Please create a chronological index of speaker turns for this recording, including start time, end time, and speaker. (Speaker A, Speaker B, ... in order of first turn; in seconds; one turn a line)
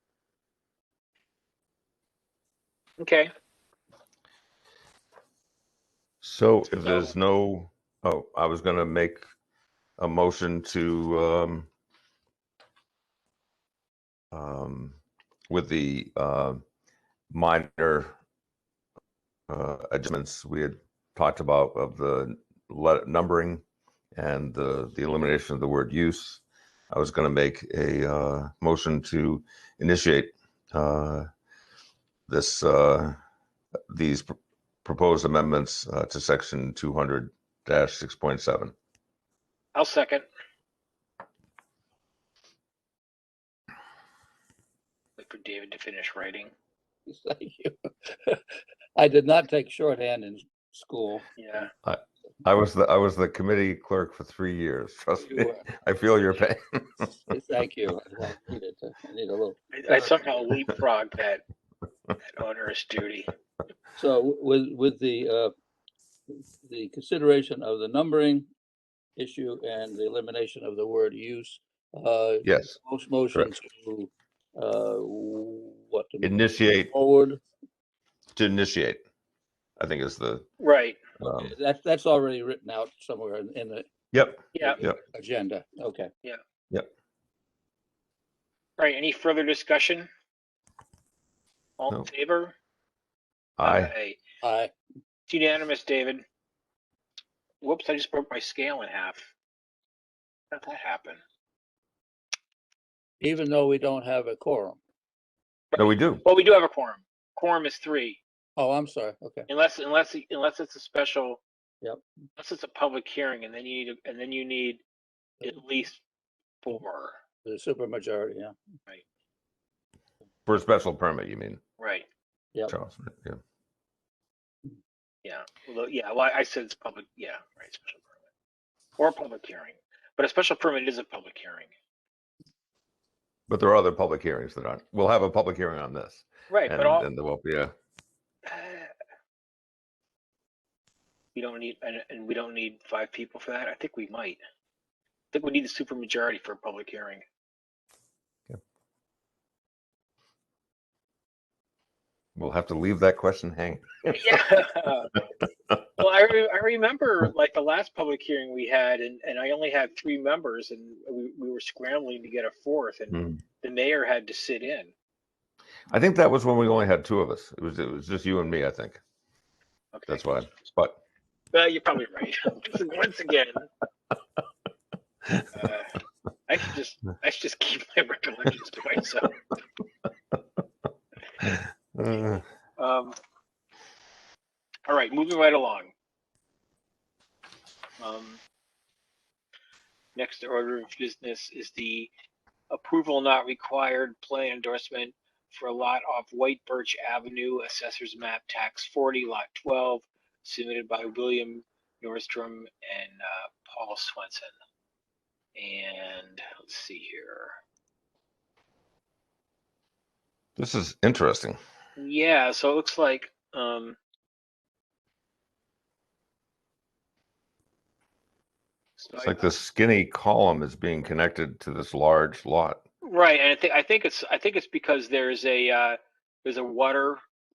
Speaker A: 3.0-3.3
Speaker B: 6.2-9.2
Speaker A: 6.8-7.1
Speaker B: 10.0-11.7
Speaker B: 14.3-16.6
Speaker B: 17.3-18.1
Speaker B: 19.5-23.6
Speaker B: 24.1-31.3
Speaker B: 32.3-33.2
Speaker B: 33.9-34.3
Speaker B: 34.8-38.7
Speaker A: 39.8-40.3
Speaker A: 45.2-46.5
Speaker C: 47.1-48.4
Speaker C: 49.0-51.2
Speaker A: 51.4-51.7
Speaker B: 51.9-57.1
Speaker C: 55.2-55.7
Speaker C: 57.3-60.3
Speaker A: 59.7-61.4
Speaker A: 62.2-63.3
Speaker C: 64.0-65.5
Speaker C: 66.6-68.5
Speaker C: 69.2-77.4
Speaker B: 72.4-72.8
Speaker B: 76.2-76.9
Speaker B: 78.4-79.0
Speaker B: 79.8-80.5
Speaker A: 80.6-81.0
Speaker B: 81.2-81.6
Speaker C: 81.4-83.9
Speaker B: 84.1-85.0
Speaker A: 84.5-84.8
Speaker C: 84.8-86.1
Speaker A: 88.8-90.1
Speaker A: 91.8-92.5
Speaker B: 93.6-93.9
Speaker A: 93.6-94.2
Speaker C: 94.4-94.7
Speaker A: 95.3-96.2
Speaker A: 97.6-99.3
Speaker A: 100.5-101.2
Speaker C: 103.2-104.8
Speaker A: 105.7-108.2
Speaker B: 105.8-106.2
Speaker C: 108.6-109.5
Speaker A: 109.5-111.4
Speaker A: 112.4-114.8
Speaker A: 115.4-116.0
Speaker A: 116.6-117.2
Speaker C: 117.5-118.5
Speaker B: 120.5-121.6
Speaker A: 121.8-122.1
Speaker B: 122.7-123.4
Speaker A: 125.2-128.1
Speaker A: 129.0-131.7
Speaker B: 133.5-137.7
Speaker A: 136.5-137.1
Speaker A: 138.4-138.9
Speaker A: 141.3-144.4
Speaker A: 145.3-147.2
Speaker B: 152.4-154.6
Speaker A: 154.1-155.1
Speaker A: 156.0-164.9
Speaker B: 163.1-163.4
Speaker B: 165.9-169.0
Speaker A: 169.9-170.2
Speaker B: 170.1-171.0
Speaker A: 171.5-173.7
Speaker A: 175.5-175.9
Speaker A: 176.5-179.4
Speaker B: 181.4-182.4
Speaker A: 182.2-183.2
Speaker A: 184.9-185.9
Speaker A: 188.0-188.4
Speaker A: 190.2-192.1
Speaker A: 192.7-204.5
Speaker A: 205.6-207.6
Speaker B: 210.6-211.6
Speaker A: 212.0-214.0
Speaker A: 219.0-219.5
Speaker B: 219.2-222.8
Speaker A: 223.0-227.2